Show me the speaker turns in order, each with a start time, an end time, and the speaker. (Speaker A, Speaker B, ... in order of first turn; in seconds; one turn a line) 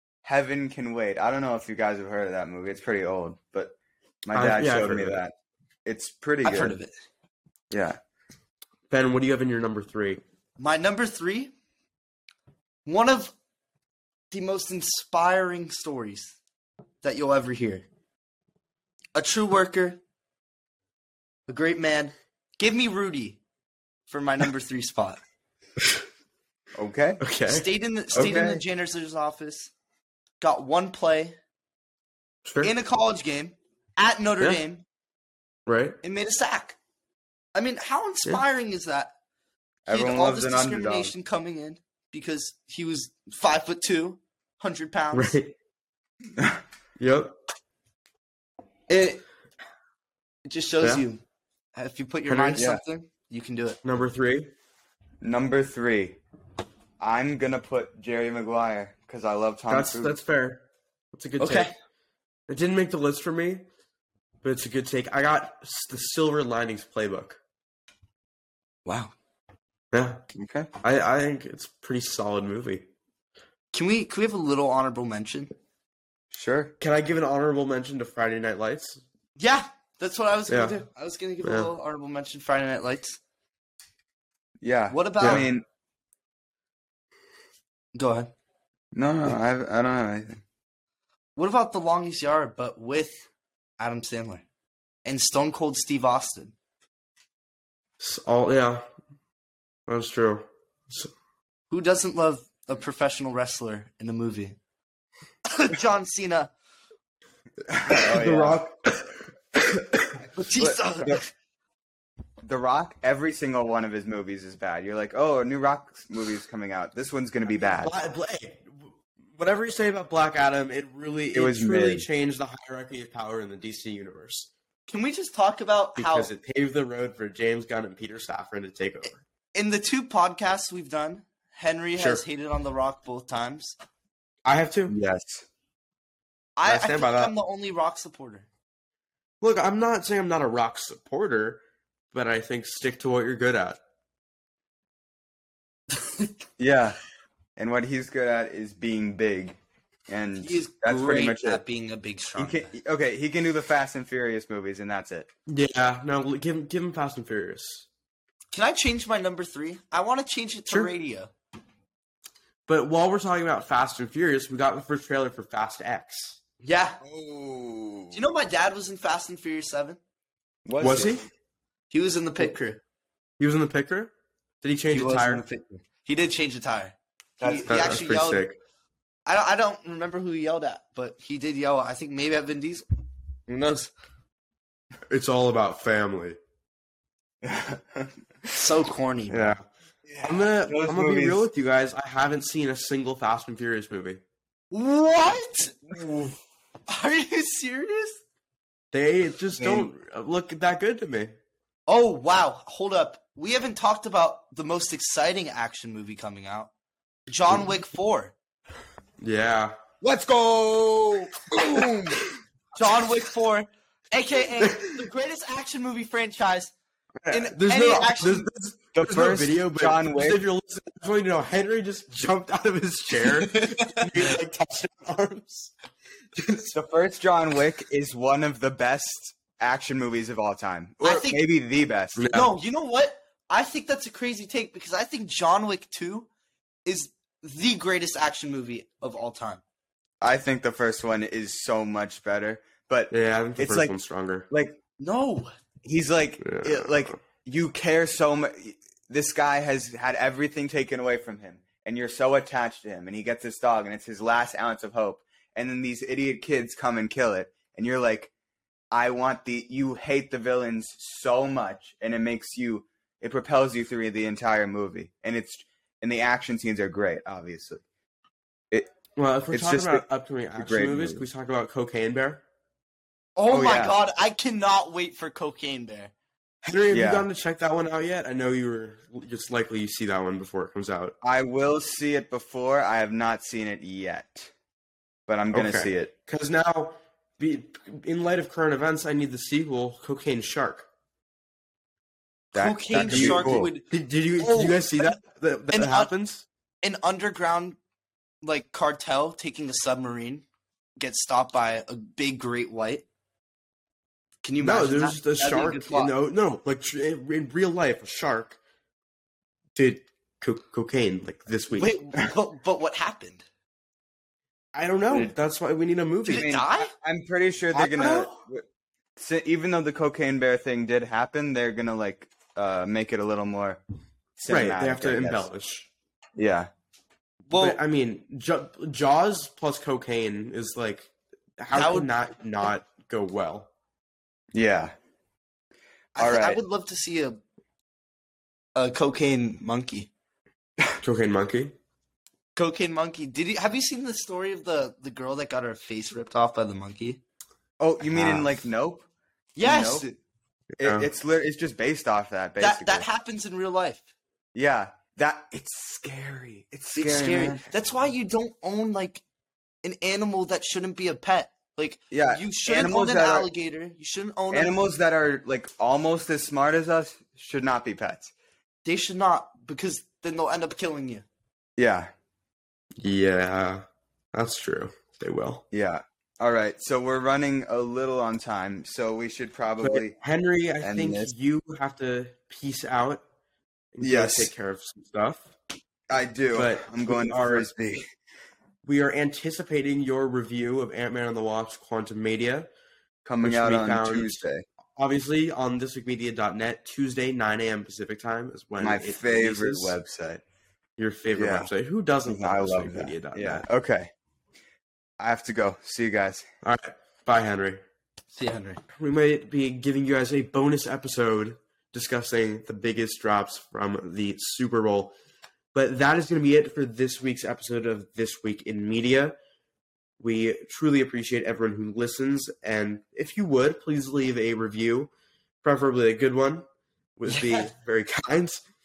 Speaker A: 0.2-5.3
Speaker B: 4.3-5.2
Speaker A: 5.8-6.8
Speaker C: 6.4-6.9
Speaker A: 7.7-8.0
Speaker B: 8.9-10.2
Speaker C: 10.6-11.5
Speaker C: 12.9-13.3
Speaker C: 14.3-16.4
Speaker C: 17.0-17.8
Speaker C: 19.1-20.0
Speaker C: 21.5-23.4
Speaker C: 24.1-25.2
Speaker A: 26.7-27.2
Speaker B: 27.2-28.4
Speaker C: 27.5-29.7
Speaker A: 28.1-28.6
Speaker C: 30.4-31.4
Speaker B: 32.5-32.7
Speaker C: 32.6-34.8
Speaker B: 35.7-36.0
Speaker C: 36.0-36.8
Speaker C: 37.5-39.1
Speaker A: 39.9-41.1
Speaker C: 39.9-45.3
Speaker B: 45.1-45.5
Speaker B: 47.0-47.4
Speaker C: 48.9-49.2
Speaker C: 50.5-51.2
Speaker C: 51.7-53.8
Speaker B: 52.3-52.6
Speaker A: 52.6-52.8
Speaker B: 53.8-54.5
Speaker A: 55.2-56.2
Speaker A: 57.0-60.1
Speaker B: 59.7-61.7
Speaker C: 61.4-61.7
Speaker B: 62.5-63.6
Speaker B: 64.4-67.4
Speaker C: 68.9-69.1
Speaker B: 69.9-70.2
Speaker A: 70.3-70.7
Speaker B: 70.8-72.8
Speaker C: 73.7-75.5
Speaker A: 76.3-76.7
Speaker B: 76.8-79.0
Speaker C: 79.4-83.2
Speaker B: 80.5-80.8
Speaker B: 81.4-81.7
Speaker A: 84.6-85.6
Speaker C: 84.9-85.5
Speaker B: 85.2-85.5
Speaker C: 87.9-88.3
Speaker A: 88.9-90.4
Speaker C: 91.4-93.3
Speaker C: 93.8-94.4
Speaker C: 95.0-96.5
Speaker B: 98.0-98.9
Speaker B: 99.9-101.1
Speaker C: 101.7-104.6
Speaker C: 105.5-106.5
Speaker A: 107.7-108.6
Speaker B: 107.9-110.1
Speaker C: 110.3-111.3
Speaker A: 110.6-111.2
Speaker A: 112.4-117.9
Speaker B: 117.5-124.5
Speaker A: 121.3-122.0
Speaker C: 124.9-126.3
Speaker B: 126.0-129.2
Speaker C: 129.5-133.7
Speaker B: 132.0-132.2
Speaker B: 134.4-134.9
Speaker A: 134.9-135.4
Speaker C: 136.6-138.5
Speaker B: 136.6-137.3
Speaker B: 139.4-141.6
Speaker B: 142.1-143.8
Speaker A: 146.6-147.0
Speaker A: 147.6-149.6
Speaker A: 150.1-151.6
Speaker C: 150.4-152.7
Speaker A: 152.4-155.3
Speaker B: 155.5-157.9
Speaker C: 158.5-161.3
Speaker B: 162.7-166.4
Speaker C: 166.6-167.0
Speaker A: 167.0-168.2
Speaker C: 168.1-170.0
Speaker A: 170.7-171.2
Speaker B: 170.8-171.2
Speaker C: 171.9-172.8
Speaker B: 173.4-175.4
Speaker C: 174.9-178.5
Speaker B: 177.4-178.6
Speaker C: 179.3-182.8
Speaker B: 183.5-183.9
Speaker B: 185.1-186.4
Speaker A: 187.4-188.5
Speaker C: 188.5-189.6
Speaker B: 189.3-189.6
Speaker A: 190.1-191.4
Speaker B: 190.2-194.2
Speaker C: 194.7-195.8
Speaker A: 195.9-196.4
Speaker C: 196.9-198.2
Speaker B: 198.9-201.3
Speaker A: 199.6-199.9
Speaker C: 201.9-206.7
Speaker C: 207.3-208.3
Speaker B: 209.2-209.8
Speaker A: 210.0-212.2
Speaker C: 212.7-216.7
Speaker B: 214.6-215.0
Speaker B: 217.2-225.7
Speaker C: 217.3-218.5
Speaker A: 218.9-220.4
Speaker C: 223.2-224.2
Speaker B: 226.4-226.7
Speaker A: 226.7-232.3
Speaker C: 231.0-231.4
Speaker B: 232.2-232.5
Speaker C: 232.3-236.3
Speaker C: 236.8-239.6
Speaker A: 240.2-244.0
Speaker B: 243.1-244.5
Speaker A: 244.5-244.8
Speaker C: 245.0-245.5
Speaker A: 245.8-258.3
Speaker B: 246.4-247.2
Speaker A: 258.9-267.8
Speaker B: 269.2-272.4
Speaker A: 269.5-270.1
Speaker A: 270.6-271.2
Speaker C: 273.4-276.1
Speaker A: 273.5-273.9
Speaker B: 276.6-281.1
Speaker A: 276.9-277.3
Speaker A: 281.2-284.5
Speaker A: 285.3-286.1
Speaker B: 285.5-290.9
Speaker A: 292.5-293.7
Speaker C: 292.6-295.2
Speaker B: 293.0-296.4
Speaker C: 295.7-296.1
Speaker C: 296.8-297.8
Speaker C: 298.4-300.4
Speaker C: 301.0-303.0
Speaker C: 304.4-306.1
Speaker B: 304.6-308.6
Speaker B: 309.7-311.9
Speaker C: 311.8-313.4
Speaker B: 314.7-316.5
Speaker C: 316.2-316.9
Speaker A: 316.3-318.6
Speaker B: 317.7-318.4
Speaker A: 319.2-323.8
Speaker A: 324.4-325.4
Speaker B: 324.5-325.9
Speaker A: 326.4-326.7
Speaker C: 327.5-327.8
Speaker B: 327.6-333.7
Speaker C: 331.7-332.1
Speaker A: 334.5-334.9
Speaker C: 336.1-337.4
Speaker A: 336.2-336.6
Speaker C: 338.7-340.1
Speaker B: 341.0-341.8
Speaker C: 342.6-347.2
Speaker A: 347.8-349.1
Speaker B: 348.1-348.6
Speaker C: 349.6-350.1
Speaker A: 349.6-350.1
Speaker B: 350.8-351.1
Speaker A: 350.8-353.1
Speaker C: 352.6-354.1
Speaker A: 354.6-357.6
Speaker C: 356.9-359.2
Speaker C: 359.8-364.8
Speaker A: 362.1-363.5
Speaker A: 364.5-368.3
Speaker C: 368.8-371.3
Speaker A: 371.8-372.1
Speaker B: 373.0-375.6
Speaker A: 375.7-380.1
Speaker B: 379.8-383.2
Speaker A: 380.8-381.3
Speaker B: 383.9-385.5
Speaker A: 384.0-384.5
Speaker A: 386.1-388.1
Speaker B: 386.6-387.7
Speaker B: 388.8-392.7
Speaker A: 393.2-394.6
Speaker B: 393.4-394.4
Speaker B: 394.9-399.9
Speaker A: 398.8-400.4
Speaker B: 401.0-403.6
Speaker A: 401.4-401.7
Speaker A: 402.3-404.1
Speaker A: 405.2-406.5
Speaker B: 406.6-407.8
Speaker C: 408.3-408.8
Speaker B: 408.9-415.1
Speaker B: 415.7-419.4
Speaker B: 420.2-425.1
Speaker B: 425.6-426.6
Speaker B: 427.2-428.6
Speaker C: 427.3-427.7